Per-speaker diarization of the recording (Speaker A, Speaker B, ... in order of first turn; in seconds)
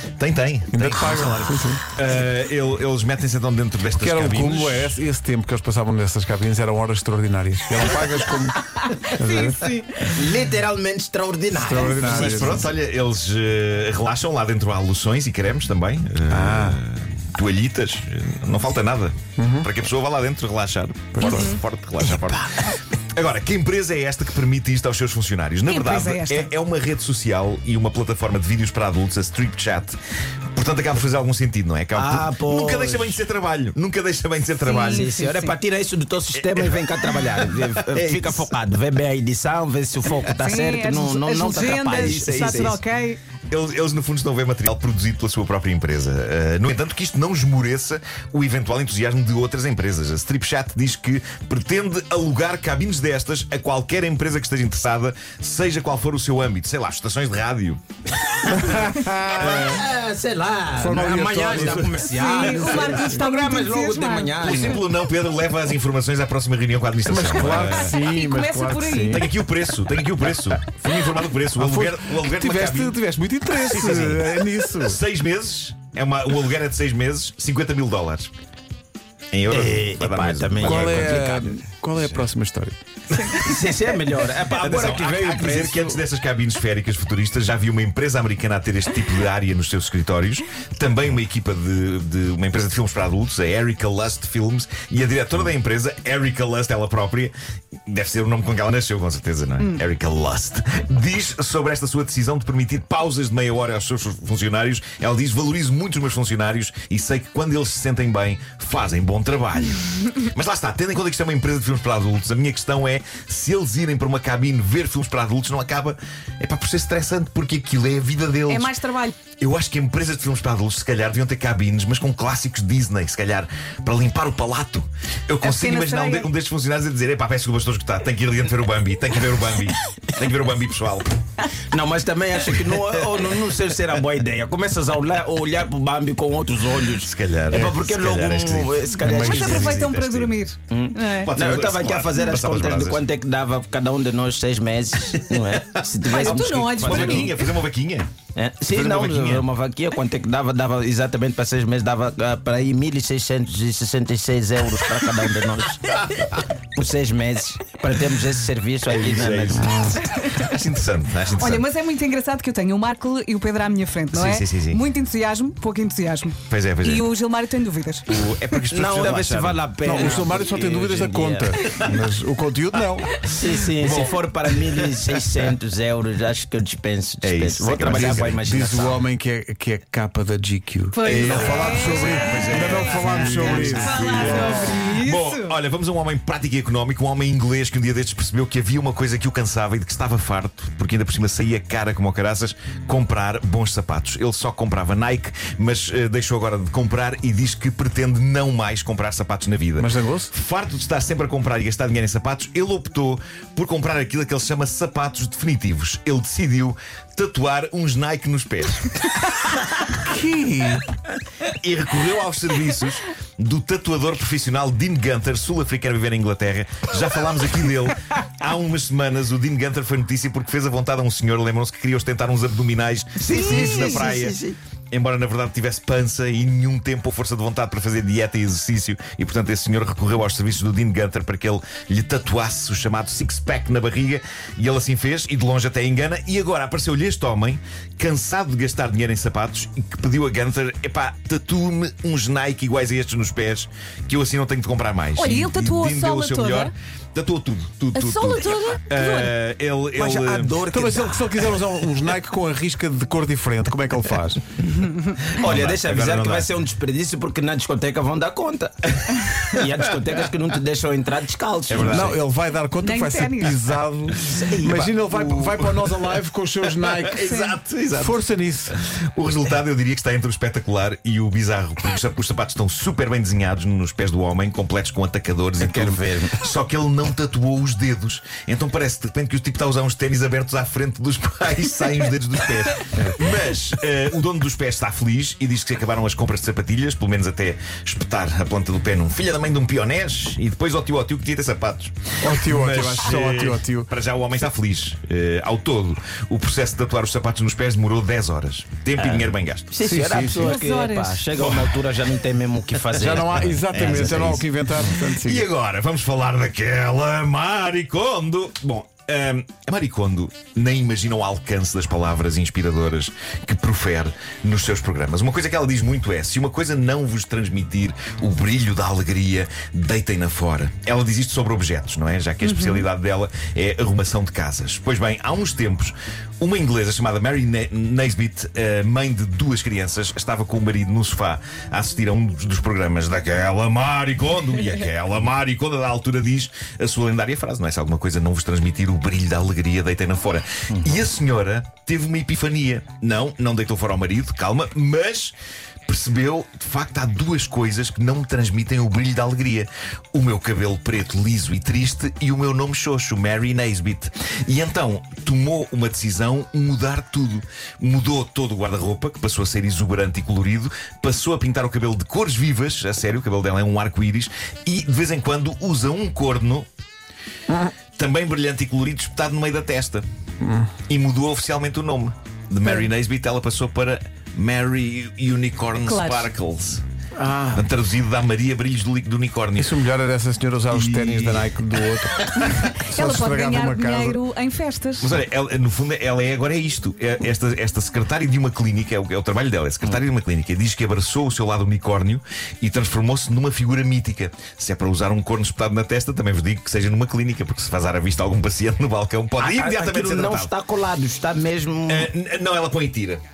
Speaker A: 0.2-1.3, 1.9-5.0, 11.9-30.0, 30.5-35.1, 36.3-36.8, 37.4-38.5, 42.0-42.2, 43.5-57.8, 59.4-59.8, 64.4-68.0, 69.1-73.0, 73.5-78.3, 79.3-81.2, 82.0-82.2, 84.6-97.3, 97.9-118.7, 119.4-131.1, 136.9-140.3, 141.2-143.0, 145.4-148.1, 148.7-149.5, 158.9-161.6, 164.1-164.8, 166.5-167.1, 168.1-170.1, 173.7-174.8, 177.2-178.4, 181.0-208.9, 211.5-224.3, 224.9-250.6, 255.3-256.5, 259.0-259.9, 261.7-262.2, 265.1-268.2, 268.7-299.7, 301.4-301.7, 303.7-345.3, 345.9-366.7, 367.9-370.0, 370.9-376.8, 377.5-379.8, 380.7-381.6, 385.0-400.5, 401.9-403.2
Speaker B: 0.7-1.8, 4.0-9.8, 11.5-12.7, 16.3-16.8, 19.4-19.7, 21.1-21.5, 58.5-59.7, 60.7-63.2, 67.0-69.3, 71.6-75.0, 80.6-83.1, 169.8-173.2, 177.9-184.8, 199.8-200.3, 210.0-210.8, 250.7-254.4, 261.7-267.3, 267.9-268.8, 292.2-293.9, 299.8-300.5, 302.9-305.4, 370.4-370.7, 377.2-377.7, 379.6-384.2
Speaker C: 0.9-1.4, 10.0-12.6, 22.0-22.7, 31.9-33.2, 34.8-42.8, 59.4-64.8, 79.5-81.7, 83.3-86.0, 131.7-139.8, 140.7-147.3, 148.3-160.0, 168.7-171.7, 173.3-179.0, 183.8-184.4, 223.2-224.6, 249.9-251.6, 255.4-262.2, 264.2-265.0, 275.6-276.4, 298.9-304.4, 340.7-341.0, 399.4-402.1
Speaker D: 9.4-9.8, 21.2-21.6, 25.7-26.5, 34.6-35.6, 40.2-43.2, 62.0-64.7, 67.4-69.2, 118.5-119.2, 125.4-126.3, 139.0-141.4, 146.0-147.3, 161.4-168.1, 180.9-185.5, 245.2-246.7, 247.9-249.3, 262.8-263.6, 267.1-267.6, 300.3-301.2, 322.4-322.8, 375.8-376.3, 382.6-385.1